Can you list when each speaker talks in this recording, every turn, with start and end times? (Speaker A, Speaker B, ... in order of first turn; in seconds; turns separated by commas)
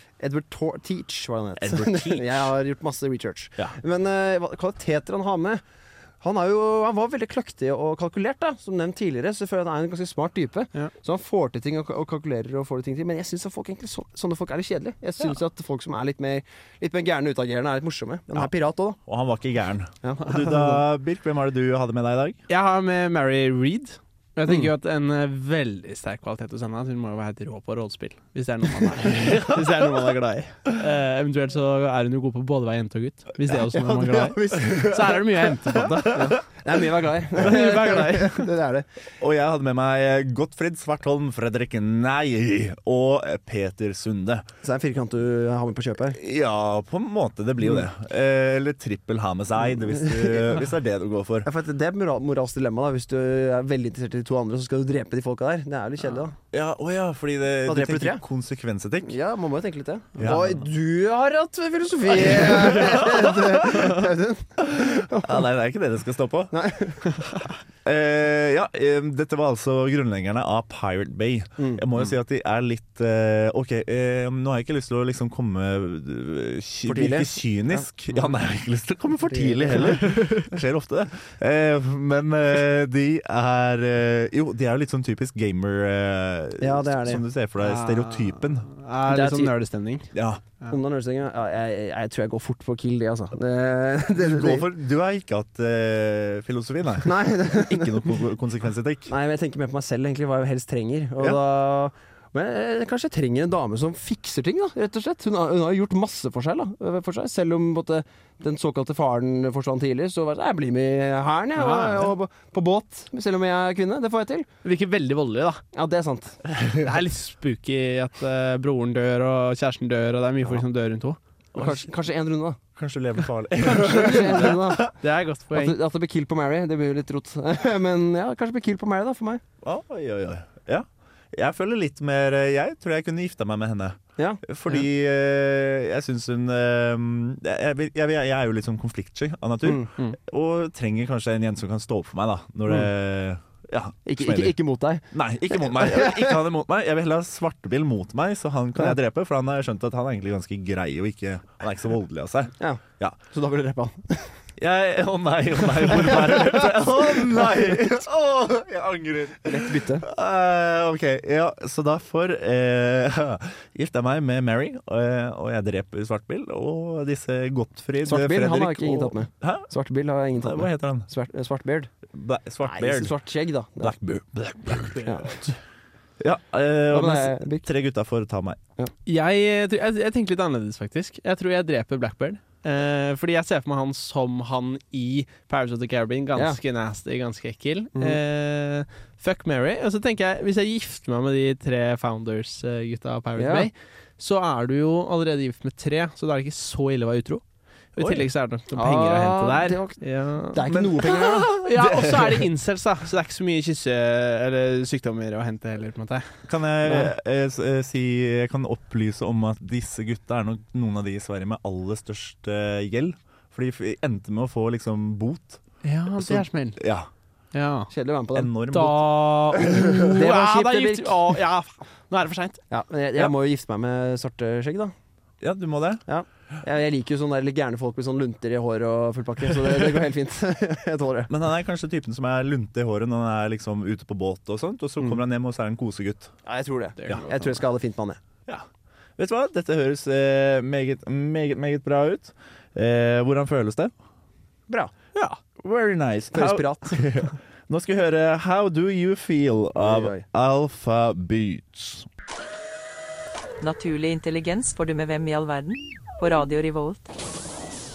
Speaker A: 0.2-5.6, Speaker B: 1.6-2.5, Speaker A: 6.2-19.0, Speaker B: 19.1-22.4, Speaker A: 20.0-20.8, Speaker C: 22.5-36.4, Speaker B: 29.1-29.6, Speaker A: 33.7-35.2, Speaker B: 34.5-35.0, Speaker B: 35.7-36.3, Speaker A: 36.1-38.9, Speaker C: 37.4-38.5, Speaker B: 39.2-44.5, Speaker A: 44.6-46.2, Speaker B: 46.1-51.5, Speaker A: 49.9-50.6, Speaker A: 51.4-56.3, Speaker B: 56.5-59.1, Speaker A: 57.6-58.2, Speaker A: 59.0-65.4, Speaker B: 60.2-60.6, Speaker B: 62.1-64.0, Speaker B: 64.6-66.5, Speaker A: 66.5-67.1, Speaker B: 67.8-88.7, Speaker A: 71.6-71.8, Speaker A: 76.8-77.4, Speaker A: 79.3-80.0, Speaker C: 79.8-80.5, Speaker A: 86.6-87.2, Speaker C: 87.6-90.7, Speaker A: 89.0-89.5, Speaker B: 90.1-90.4, Speaker A: 90.7-94.7, Speaker B: 94.2-99.1, Speaker A: 97.0-98.1, Speaker A: 99.1-114.5, Speaker C: 111.5-112.1, Speaker C: 114.6-115.6, Speaker A: 115.7-116.4, Speaker C: 116.5-121.2, Speaker B: 121.5-121.9, Speaker A: 121.5-122.6, Speaker B: 122.8-124.9, Speaker A: 123.6-124.9, Speaker C: 123.9-125.8, Speaker A: 125.5-129.4, Speaker B: 129.6-144.6, Speaker A: 139.6-140.2, Speaker A: 144.1-146.4, Speaker B: 145.1-153.2, Speaker A: 152.6-154.3, Speaker B: 154.6-169.7, Speaker A: 155.9-156.8, Speaker A: 159.4-160.1, Speaker A: 168.0-171.9, Speaker B: 170.4-171.1, Speaker B: 172.1-173.1, Speaker A: 172.6-173.9, Speaker B: 173.8-175.1, Speaker C: 174.9-175.6, Speaker A: 175.0-175.3, Speaker B: 176.2-178.6, Speaker A: 176.9-177.7, Speaker C: 179.1-197.4, Speaker A: 193.4-193.7, Speaker C: 197.9-206.3, Speaker B: 198.0-198.3, Speaker A: 198.7-200.0, Speaker A: 200.5-201.5, Speaker B: 200.7-202.5, Speaker B: 206.5-215.6, Speaker A: 206.8-207.1, Speaker C: 215.8-216.8, Speaker B: 216.2-217.1, Speaker C: 217.5-217.9, Speaker A: 217.9-218.5, Speaker B: 218.3-220.1, Speaker C: 218.7-222.6, Speaker A: 220.1-221.4, Speaker A: 222.7-224.9, Speaker B: 225.4-226.0, Speaker A: 226.1-231.3, Speaker B: 231.3-236.3, Speaker A: 236.4-238.2, Speaker C: 237.0-237.5, Speaker B: 239.2-243.9, Speaker B: 245.6-252.1, Speaker A: 246.3-247.2, Speaker A: 249.8-250.2, Speaker D: 253.6-257.1